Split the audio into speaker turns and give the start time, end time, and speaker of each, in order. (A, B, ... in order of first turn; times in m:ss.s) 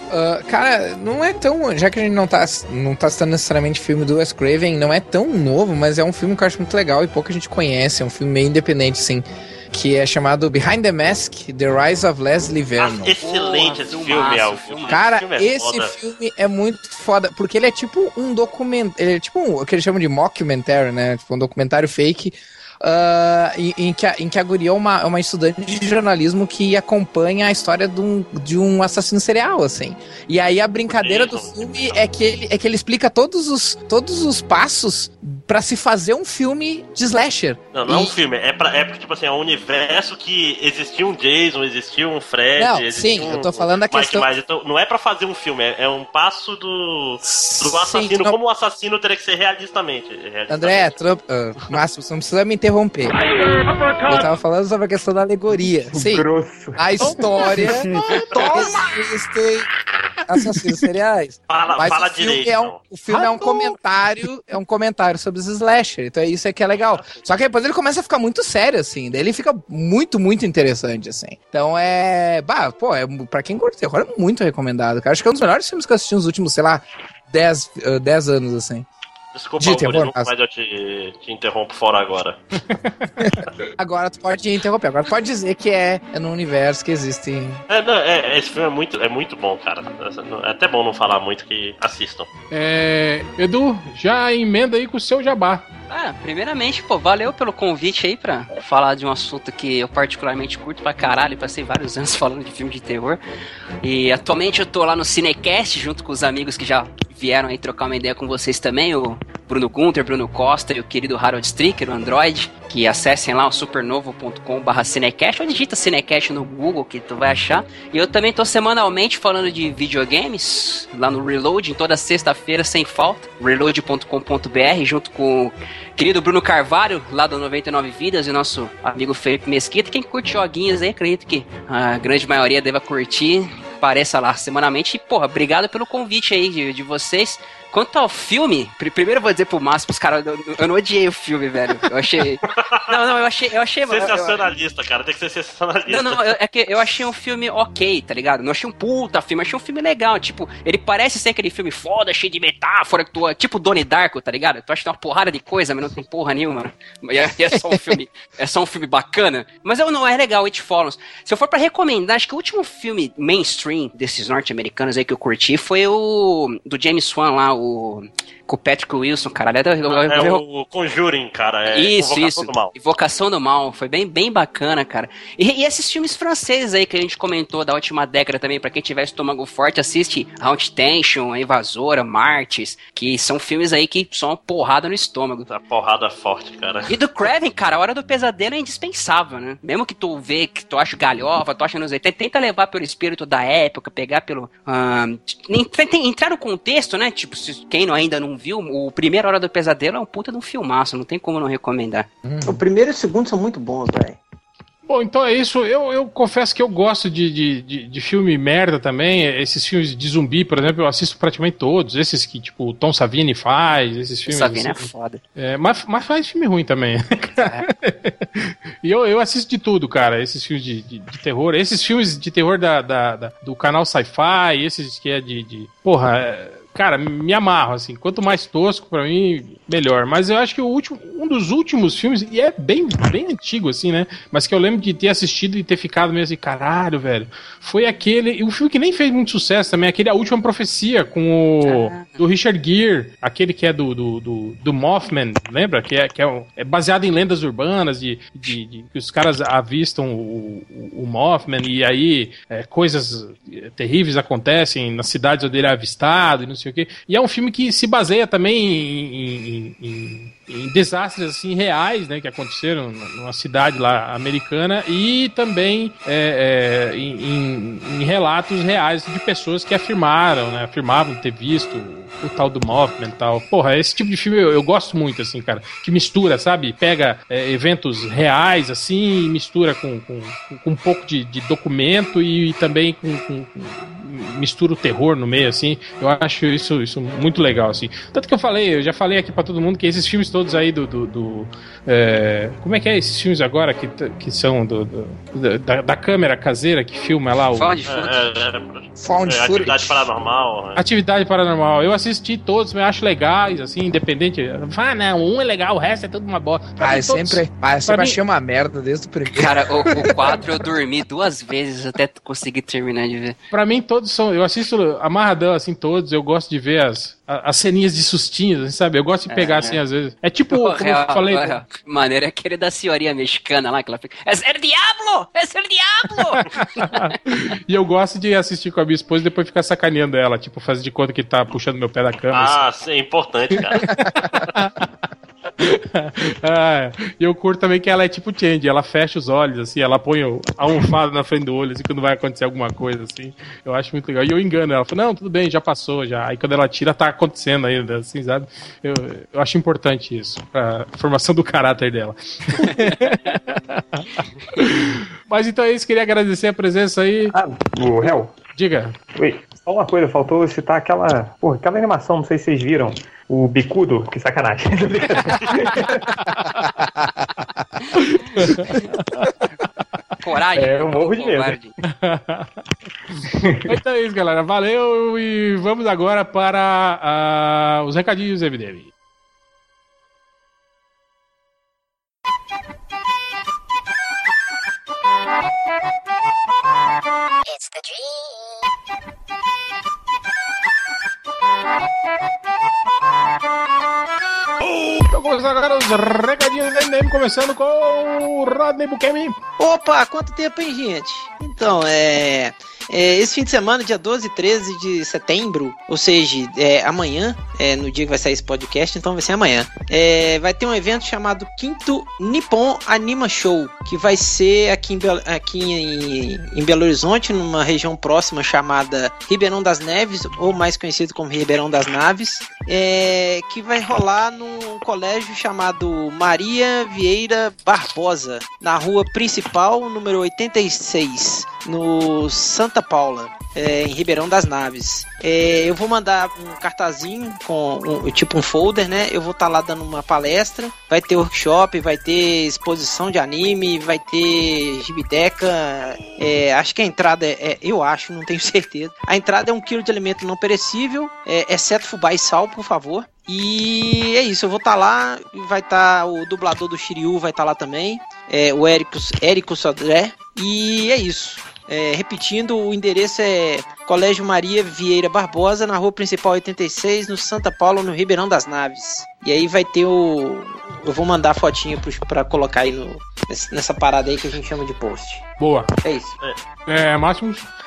0:00.1-0:13.2 A
0:12.8-0:15.9 B
0:13.2-0:15.0 C
0:14.9-0:38.2 A
0:30.9-0:32.0 B
0:37.7-0:50.9 B
0:42.6-0:44.3 A
0:47.2-0:48.4 A
0:50.5-0:53.2 A
0:54.0-0:56.2 A
0:55.9-0:58.2 D
0:56.8-0:59.7 A
1:00.3-1:18.9 A
1:01.5-1:02.8 B
1:03.1-1:03.8 E
1:19.3-1:22.4 B
1:19.6-1:20.3 A
1:23.2-1:27.6 A
1:27.7-1:32.3 B
1:32.5-1:35.6 E
1:35.9-1:43.2 C
1:43.8-2:24.4 C
2:22.5-2:22.8 B
2:23.9-2:26.2 B
2:25.9-2:50.4 C
2:37.5-2:37.8 A
2:49.9-2:52.7 B
2:51.7-3:05.5 C
3:05.5-3:06.9 B
3:06.9-3:22.1 C
3:22.2-3:22.6 A
3:22.4-3:24.2 F
3:24.9-4:57.8 E
3:34.3-3:35.2 C
4:01.6-4:02.2 C
4:57.6-4:58.3 C
4:57.9-5:00.8 B
4:59.0-5:00.0 A
5:00.8-5:08.2 E
5:06.8-5:10.4 A
5:09.4-5:13.4 C
5:13.5-5:21.6 E
5:19.3-5:19.8 C
5:20.5-5:27.1 C
5:26.4-5:32.6 E
5:32.3-5:33.9 B
5:33.7-5:34.9 E
5:35.6-5:57.3 E
5:57.3-5:58.4 D
5:58.5-5:58.9 E
5:59.2-6:06.1 D
6:06.1-6:06.7 E
6:07.9-6:09.3 E
6:10.2-6:11.7 C
6:10.6-6:11.6 D
6:11.8-6:18.9 E
6:13.4-6:13.8 D
6:34.6-6:39.4 E
6:39.6-7:55.3 F
7:55.4-7:55.7 E
7:55.8-7:56.2 F
7:56.7-7:57.5 E